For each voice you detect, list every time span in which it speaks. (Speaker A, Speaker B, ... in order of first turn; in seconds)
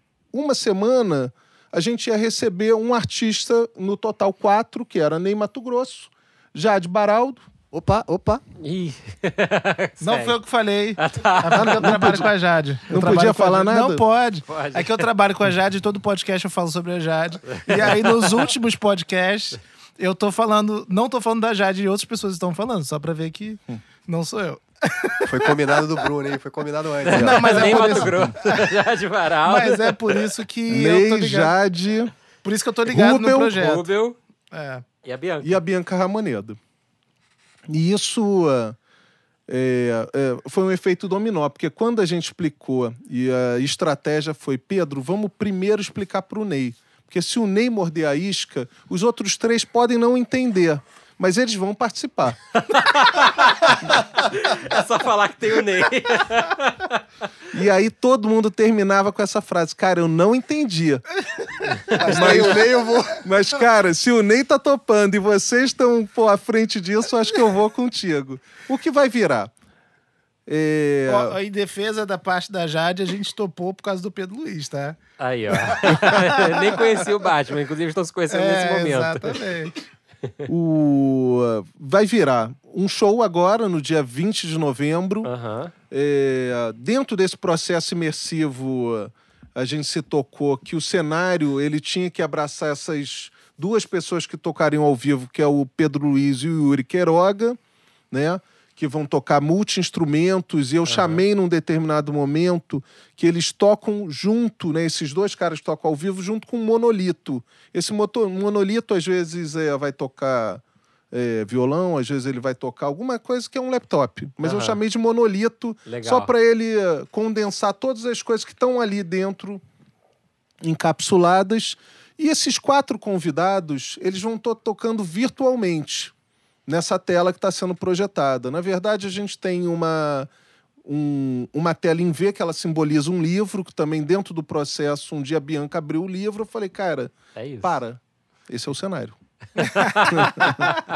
Speaker A: 0.3-7.4, 11.8-12.3, 12.9-14.0, 30.7-32.1, 32.9-33.5, 35.4-36.6, 37.7-38.8, 39.5-52.4, 57.5-61.0, 61.9-69.5, 70.5-71.4, 80.5-85.3, 85.9-97.6, 98.1-119.6, 120.6-126.1, 126.7-130.3, 130.8-139.2, 140.0-140.8
Speaker B: 7.7-8.4, 25.2-28.6, 61.9-63.2
Speaker C: 8.6-10.4, 11.0-12.2, 14.5-15.1, 17.5-18.2, 27.0-30.3, 33.5-34.2, 35.0-35.6, 52.5-57.0, 75.2-79.4, 85.2-85.7, 100.8-101.2, 114.4-114.8, 115.9-116.3, 137.3-137.8, 139.6-140.8
Speaker D: 10.0-26.1, 27.1-28.7, 29.5-31.5, 32.4-33.9, 34.5-34.9, 61.9-62.4, 71.1-75.0, 75.5-76.8, 78.3-79.8